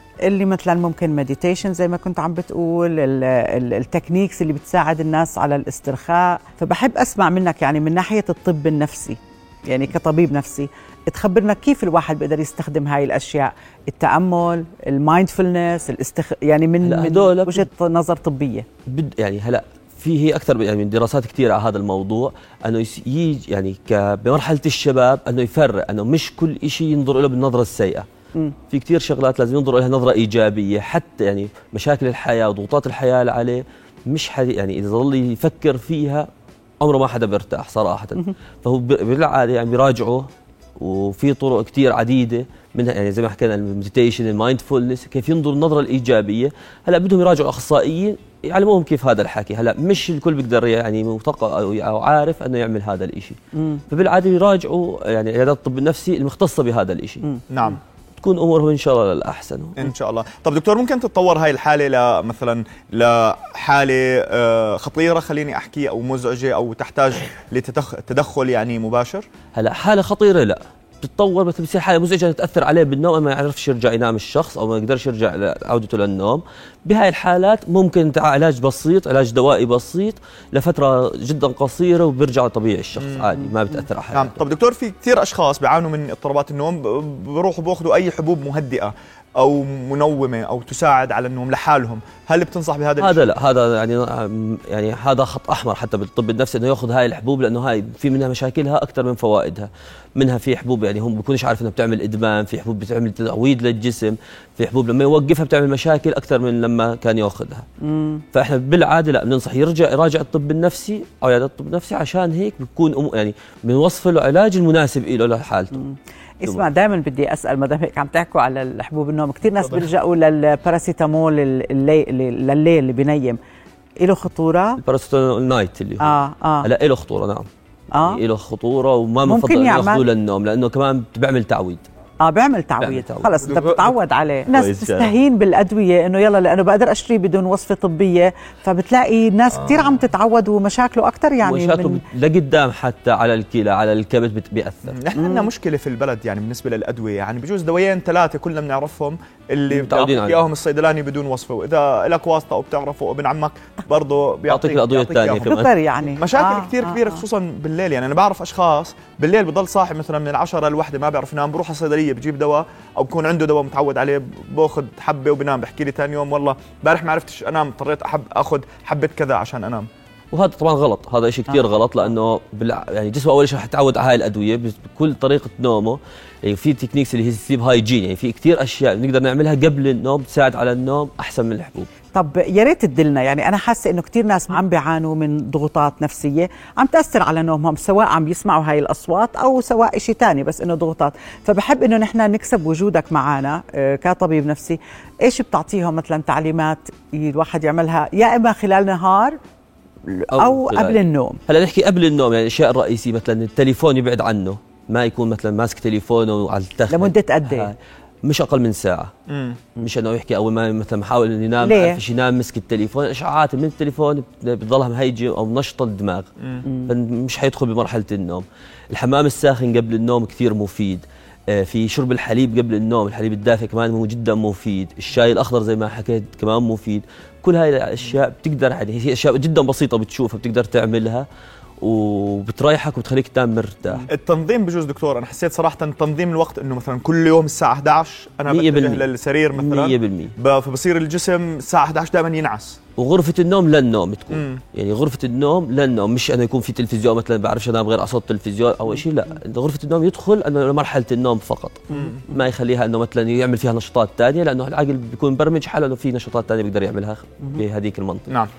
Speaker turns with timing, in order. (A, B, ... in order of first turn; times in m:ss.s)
0:00.2-0:18.6 A
0:16.8-0:17.6 B
0:18.9-0:28.0 B
0:28.7-0:36.3 B
0:36.8-0:40.3 B
0:40.8-0:53.4 B
0:53.6-0:53.8 A
0:53.9-0:57.2 B
0:57.5-0:57.8 C
0:58.2-0:59.9 B
0:59.8-1:09.2 C
1:09.5-1:24.4 B
1:23.0-1:23.4 C
1:24.1-1:33.3 C
1:33.0-1:47.6 B
1:47.8-1:48.2 A
1:48.3-1:55.8 B
1:55.7-2:03.4 A
2:04.0-2:04.8 A
2:04.8-2:07.5 B
2:06.0-2:06.7 A
2:07.9-2:08.2 A
2:08.0-2:11.8 B
2:09.2-2:10.0 A
2:12.2-2:22.0 A
2:12.8-2:13.5 B
2:14.5-2:15.1 B
2:21.4-2:24.9 B
2:24.9-2:35.5 C
2:25.2-2:25.5 A
2:29.7-2:30.4 B
2:34.5-2:35.7 B
2:35.4-2:37.2 A
2:36.2-2:49.9 C
2:50.3-3:01.9 B
3:02.1-3:19.4 A
3:20.0-3:21.4 A
3:20.3-3:29.1 B
3:26.9-3:27.7 A
3:29.3-3:29.6 C
3:29.8-3:36.3 B
3:31.6-3:32.0 A
3:36.6-3:36.9 A
3:36.9-3:51.3 B
3:51.8-3:54.1 B
3:54.1-4:02.8 C
3:58.5-4:00.3 B
4:03.0-4:18.3 B
4:04.3-4:04.6 C
4:11.9-4:12.3 C